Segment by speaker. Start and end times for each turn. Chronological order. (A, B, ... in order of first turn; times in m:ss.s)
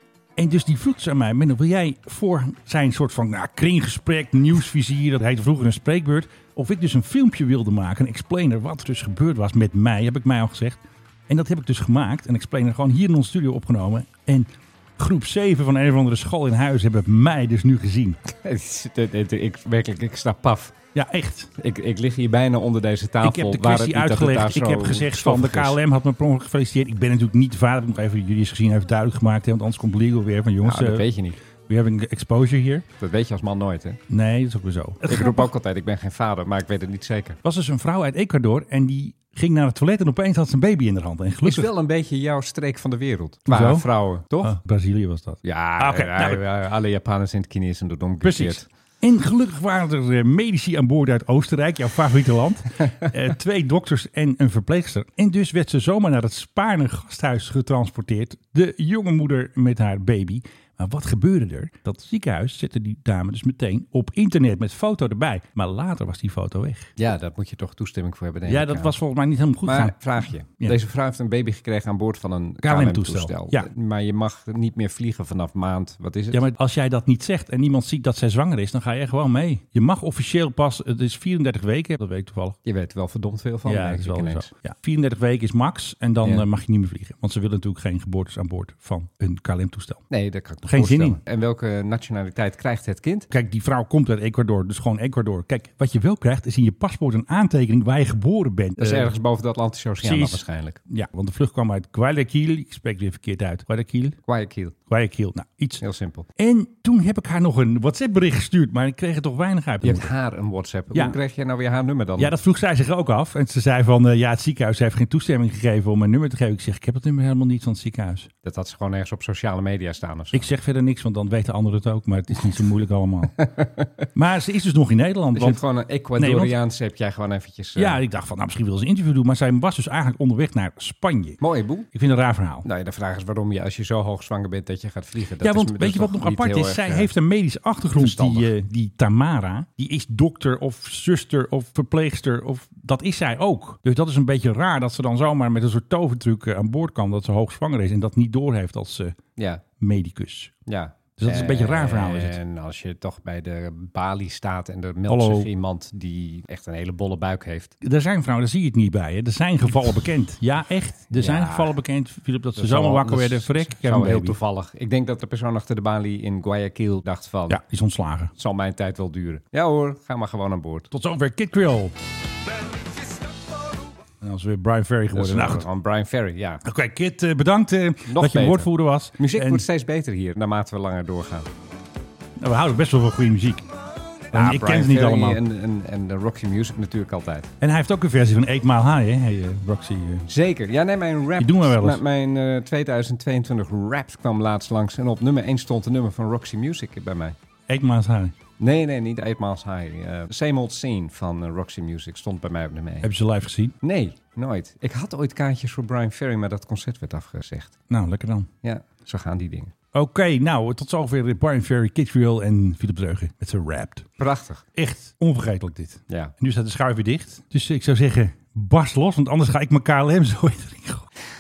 0:00.4-0:18.2 A
0:18.3-0:20.8 B
0:20.9-0:21.5 A
0:21.6-0:25.8 B
0:23.2-0:31.1 A
0:30.6-0:31.4 B
0:31.7-0:32.9 A
0:33.0-0:34.0 B
0:34.1-0:35.5 A
0:35.1-0:37.4 B
0:37.4-0:41.7 A
0:41.4-0:44.6 B
0:43.5-0:43.9 A
0:44.4-0:46.4 A
0:45.4-0:48.7 B
0:48.2-1:06.9 A
1:07.0-1:09.0 B
1:08.4-1:10.8 A
1:09.6-1:16.4 B
1:12.6-1:13.7 A
1:16.3-1:22.6 A
1:22.6-1:24.5 B
1:23.6-1:30.0 A
1:30.1-1:33.3 B
1:30.6-1:31.2 A
1:33.3-1:39.1 A
1:38.8-1:40.8 B
1:40.0-1:44.2 A
1:44.3-1:44.8 B
1:44.9-1:45.8 A
1:45.8-1:46.3 B
1:46.4-1:50.1 A
1:49.8-1:52.3 B
1:52.2-1:58.3 A
1:58.4-2:00.5 B
2:00.3-2:03.3 A
2:03.4-2:03.9 B
2:04.2-2:05.6 A
2:05.3-2:08.0 B
2:06.2-2:06.5 A
2:07.8-2:11.4 A
2:11.4-2:11.9 B
2:11.9-2:12.7 A
2:12.6-2:17.1 B
2:15.4-2:29.2 A
2:18.0-2:18.5 B
2:29.4-2:29.6 B
2:29.8-2:30.6 A
2:30.7-2:37.8 B
2:31.2-2:32.4 A
2:35.1-2:35.5 A
2:37.8-2:44.4 A
2:41.1-2:41.8 B
2:42.6-2:47.6 B
2:47.5-2:48.3 A
2:48.4-2:50.9 B
2:50.9-2:51.9 A
2:54.2-2:55.7 A
2:55.1-2:56.6 B
2:56.6-2:59.6 A
2:58.1-3:01.5 B
3:02.4-3:03.7 A
3:04.3-3:05.4 A
3:04.3-3:07.5 B
3:07.6-3:10.3 A
3:10.3-3:17.4 B
3:11.4-3:12.0 A
3:17.7-3:18.4 A
3:18.6-3:23.1 B
3:23.0-3:23.8 A
3:23.8-3:27.8 B
3:27.9-3:28.5 A
3:28.6-3:29.7 B
3:29.9-3:34.2 A
3:34.2-3:34.6 B
3:34.8-3:41.1 A